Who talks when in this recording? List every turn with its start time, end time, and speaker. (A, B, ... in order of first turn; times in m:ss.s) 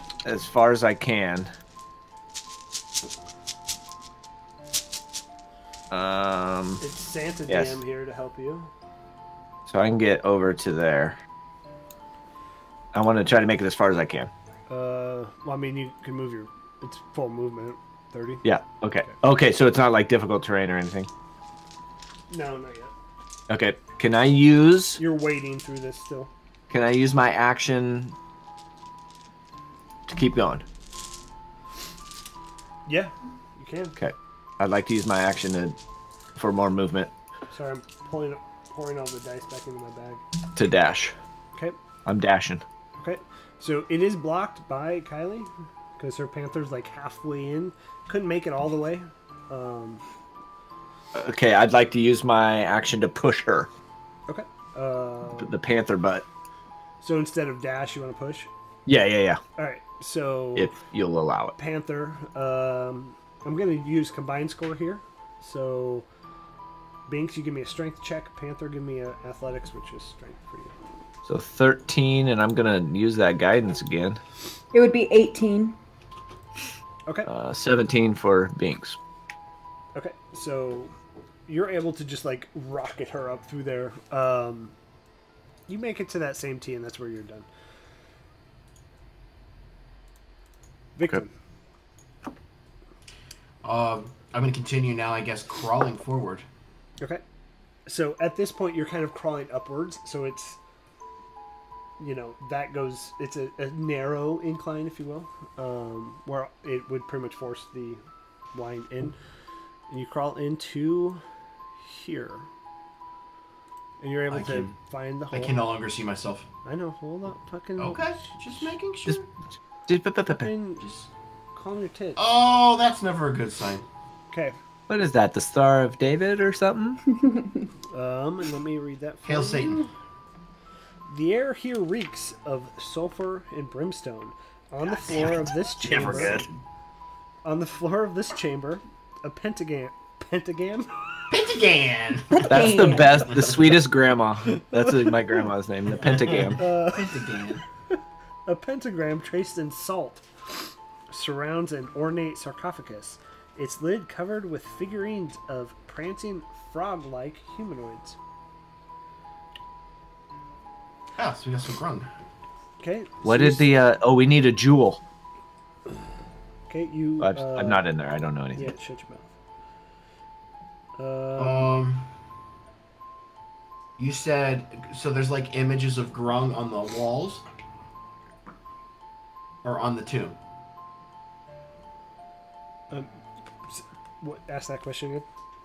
0:00.2-0:01.5 A
0:05.9-0:06.8 A
0:06.8-0:08.7 B
0:07.5-0:07.8 A
0:09.7-0:11.2 A
0:12.9-0:14.3 A
0:14.7-0:18.4 B
0:18.4-0:21.1 A
0:22.3-0:22.9 B
0:23.5-0:25.0 A
0:25.0-0:26.3 B
0:26.7-0:28.2 A
0:30.1-0:30.6 A
0:32.8-0:33.9 B
0:34.0-0:35.8 A
0:36.4-0:37.1 A
0:37.5-0:40.2 B
0:40.6-0:41.1 A
0:42.0-0:42.6 A
0:43.0-0:50.0 B
0:51.1-0:53.7 A
0:54.3-0:55.5 B
0:55.4-0:56.2 A
0:57.0-0:58.5 B
0:58.8-0:59.4 A
0:59.6-1:00.7 B
1:00.6-1:01.6 A
1:01.6-1:06.0 B
1:07.1-1:10.7 B
1:11.2-1:14.2 A
1:14.7-1:15.8 C
1:17.3-1:19.0 A
1:19.9-1:20.9 B
1:21.5-1:24.7 B
1:25.7-1:27.5 B
1:31.0-1:31.3 B
1:33.6-1:36.4 D
1:37.9-1:40.6 B
1:42.0-1:48.0 B
1:48.5-1:49.2 B
1:49.9-1:51.2 B
1:51.8-1:52.5 B
1:54.0-1:55.6 B
1:54.3-1:54.7 D
1:55.3-1:56.5 D
1:56.6-1:58.2 B
1:57.8-1:59.3 D
1:59.9-2:00.5 A
2:00.3-2:00.8 B
2:00.8-2:01.1 D
2:01.5-2:02.2 B
2:02.2-2:03.8 D
2:04.3-2:04.6 B
2:04.9-2:07.0 A
2:07.2-2:07.6 C
2:07.9-2:09.9 B
2:09.2-2:09.8 D
2:11.1-2:16.4 B
2:15.1-2:16.5 A
2:15.8-2:16.5 D
2:17.4-2:20.9 B
2:21.3-2:23.6 D
2:22.3-2:23.3 C
2:22.4-2:26.6 A
2:24.5-2:25.5 B
2:26.0-2:27.6 D
2:26.5-2:27.2 B
2:27.9-2:30.2 B
2:31.1-2:38.2 B
2:41.2-2:42.1 D
2:42.8-2:43.7 B
2:43.2-2:45.0 A
2:46.7-2:47.8 B
2:47.2-2:48.7 A
2:48.5-2:49.3 B
2:51.0-2:51.7 B
2:51.4-2:52.1 D
2:54.0-2:57.4 D
2:59.6-3:00.4 D
3:03.6-3:05.2 B